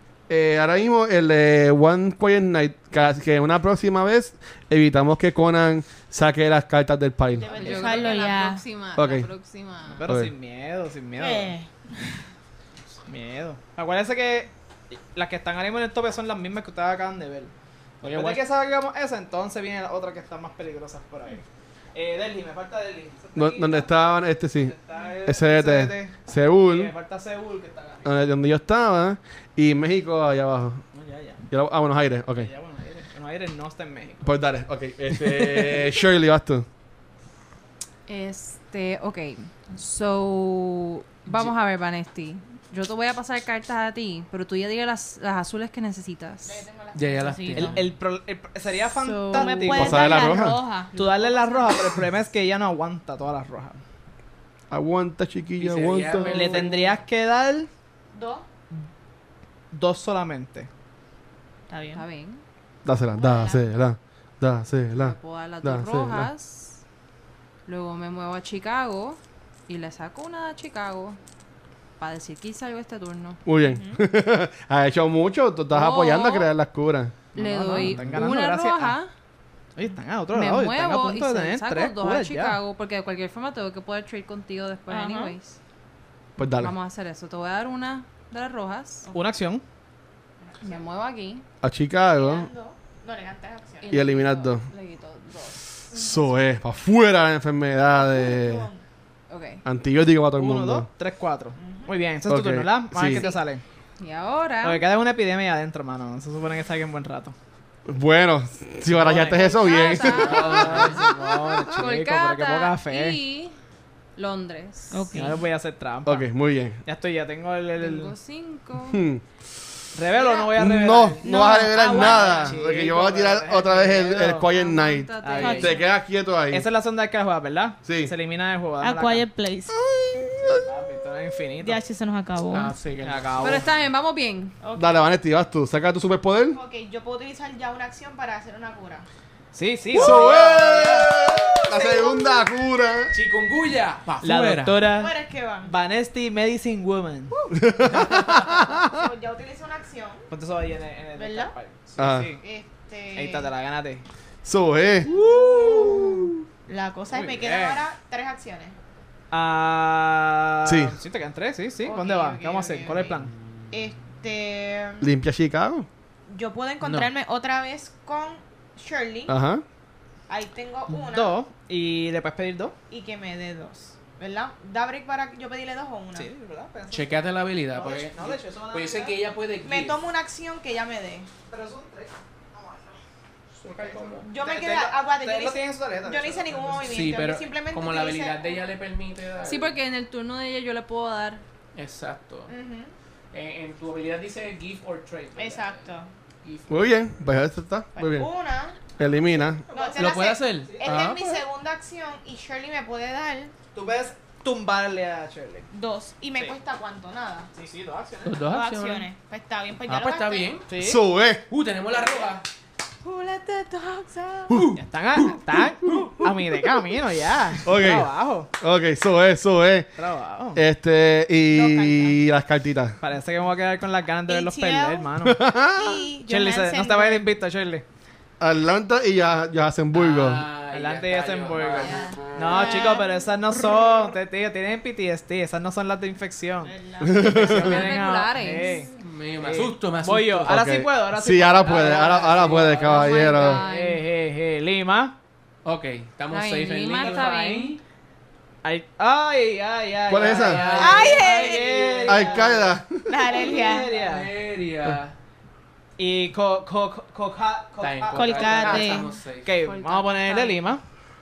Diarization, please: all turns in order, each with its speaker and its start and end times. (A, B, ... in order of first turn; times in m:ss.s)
0:00.3-0:07.5 A
0:07.4-0:08.6 B
0:07.4-0:08.1 C
0:07.5-0:10.1 D
0:09.0-0:09.3 A
0:09.9-0:11.5 C
0:10.0-0:10.3 A
0:11.1-0:12.1 B
0:13.1-0:24.0 C
0:18.0-0:18.4 E
0:23.3-0:26.9 A
0:24.6-0:28.2 C
0:28.0-0:30.8 A
0:30.9-0:31.5 C
0:31.5-0:32.5 A
0:32.4-0:34.3 C
0:34.2-0:36.6 A
0:35.1-0:35.9 C
0:38.1-0:46.6 D
0:41.3-0:41.5 E
0:46.4-0:47.8 B
0:46.9-0:47.9 E
0:47.5-0:50.2 C
0:49.0-0:50.4 D
0:49.3-0:51.9 B
0:49.8-0:50.6 A
0:50.9-0:53.8 C
0:54.7-0:56.6 A
0:55.6-0:56.9 E
0:56.2-0:57.7 C
0:58.1-0:58.4 B
0:59.7-1:00.7 C
1:01.7-1:02.0 B
1:01.9-1:02.4 D
1:02.8-1:06.3 A
1:03.2-1:03.6 B
1:05.0-1:06.8 D
1:07.6-1:11.2 D
1:12.0-1:13.4 D
1:13.4-1:17.2 A
1:13.6-1:14.0 B
1:15.7-1:16.5 D
1:17.3-1:19.0 C
1:17.3-1:19.1 D
1:19.8-1:22.6 C
1:20.3-1:25.6 D
1:24.9-1:25.4 B
1:26.4-1:26.7 A
1:26.6-1:29.1 D
1:29.1-1:29.6 C
1:30.4-1:30.8 B
1:30.6-1:31.4 D
1:31.6-1:32.5 A
1:32.1-1:34.1 B
1:33.8-1:35.6 D
1:33.9-1:34.6 A
1:35.9-1:38.7 A
1:37.9-1:38.8 B
1:39.3-1:39.6 D
1:39.6-1:40.9 A
1:40.3-1:43.6 C
1:41.6-1:41.9 B
1:42.3-1:43.2 A
1:43.1-1:43.4 B
1:44.0-1:44.8 D
1:44.6-1:47.3 C
1:47.9-1:51.1 A
1:48.9-1:53.2 C
1:49.3-1:50.9 D
1:49.9-1:51.1 E
1:51.7-1:53.5 D
1:54.2-1:55.3 D
1:54.9-1:55.4 B
1:55.1-1:56.3 C
1:56.0-1:56.8 A
1:56.8-1:58.1 C
1:57.8-1:59.0 D
1:58.9-1:59.2 A
1:59.9-2:04.5 C
2:00.1-2:00.5 B
2:00.5-2:06.6 A
2:01.2-2:02.6 B
2:04.5-2:05.8 D
2:05.2-2:05.7 C
2:05.4-2:05.8 B
2:06.5-2:09.2 C
2:07.8-2:08.1 A
2:08.8-2:09.8 B
2:09.8-2:10.6 A
2:10.4-2:11.8 C
2:11.6-2:12.7 B
2:12.5-2:13.6 E
2:13.0-2:13.7 C
2:13.4-2:14.5 D
2:14.6-2:15.0 B
2:14.8-2:16.6 A
2:16.5-2:19.0 B
2:19.5-2:21.2 C
2:19.9-2:23.1 A
2:20.3-2:20.8 E
2:21.4-2:22.5 B
2:23.1-2:24.9 E
2:24.2-2:27.5 C
2:24.9-2:25.7 B
2:27.5-2:28.9 A
2:28.7-2:30.3 B
2:30.3-2:32.4 C
2:31.2-2:31.5 B
2:32.0-2:32.3 A
2:32.4-2:33.5 B
2:33.1-2:34.0 C
2:34.4-2:35.1 A
2:35.0-2:36.3 C
2:35.1-2:36.1 B
2:36.7-2:38.8 B
2:37.1-2:37.8 C
2:39.3-2:43.3 C
2:40.6-2:41.0 A
2:41.8-2:43.1 B
2:43.5-2:43.9 E
2:43.7-2:45.1 B
2:45.0-2:45.9 A
2:46.3-2:49.3 B
2:46.8-2:47.1 E
2:49.3-2:49.6 A
2:50.3-2:51.4 B
2:50.9-2:52.8 C
2:52.9-2:56.3 B
2:56.1-2:59.0 C
2:56.9-3:00.0 E
2:58.8-3:01.3 B
3:01.5-3:03.0 C
3:03.6-3:04.2 E
3:03.7-3:07.1 C
3:04.2-3:08.6 B
3:06.8-3:09.7 E
3:09.4-3:11.4 D
3:11.7-3:12.5 E
3:12.5-3:12.9 B
3:13.3-3:15.9 E
3:15.4-3:16.1 B
3:16.4-3:16.9 E
3:16.7-3:18.3 A
3:17.9-3:18.8 B
3:19.0-3:19.6 A
3:19.7-3:21.2 C
3:19.7-3:23.5 B
3:20.0-3:21.4 E
3:23.7-3:25.7 C
3:25.7-3:27.5 B
3:27.5-3:28.4 C
3:28.2-3:29.1 E
3:28.5-3:30.6 B
3:29.9-3:30.7 E
3:30.7-3:31.0 C
3:30.8-3:31.4 A
3:31.5-3:32.4 E
3:31.9-3:32.3 C
3:33.0-3:34.6 B
3:34.5-3:36.1 E
3:34.7-3:38.5 C
3:36.0-3:36.5 A
3:37.6-3:39.9 A
3:40.0-3:40.6 C
3:40.5-3:43.0 A
3:41.5-3:42.2 B
3:43.0-3:45.4 C
3:44.2-3:45.1 B
3:45.2-3:46.0 A
3:45.7-3:47.2 B
3:46.2-3:47.8 C
3:48.4-3:50.4 A
3:49.9-3:52.2 E
3:50.7-4:05.2 C
3:51.8-3:54.1 B
3:56.6-3:57.9 B
3:57.0-3:57.8 A
3:57.3-3:58.8 D
3:58.5-3:58.8 B
3:58.9-4:00.6 E
4:00.4-4:03.6 A
4:02.8-4:04.0 D
4:05.6-4:07.8 E
4:06.3-4:07.8 D
4:07.0-4:07.7 C
4:08.6-4:12.8 C
4:10.1-4:10.6 A
4:10.1-4:12.5 E
4:10.7-4:12.1 B
4:12.1-4:13.3 A
4:13.1-4:13.9 B
4:13.3-4:14.3 C
4:13.9-4:15.2 E
4:16.0-4:20.8 C
4:17.8-4:19.5 E
4:18.1-4:19.1 B
4:19.6-4:20.7 D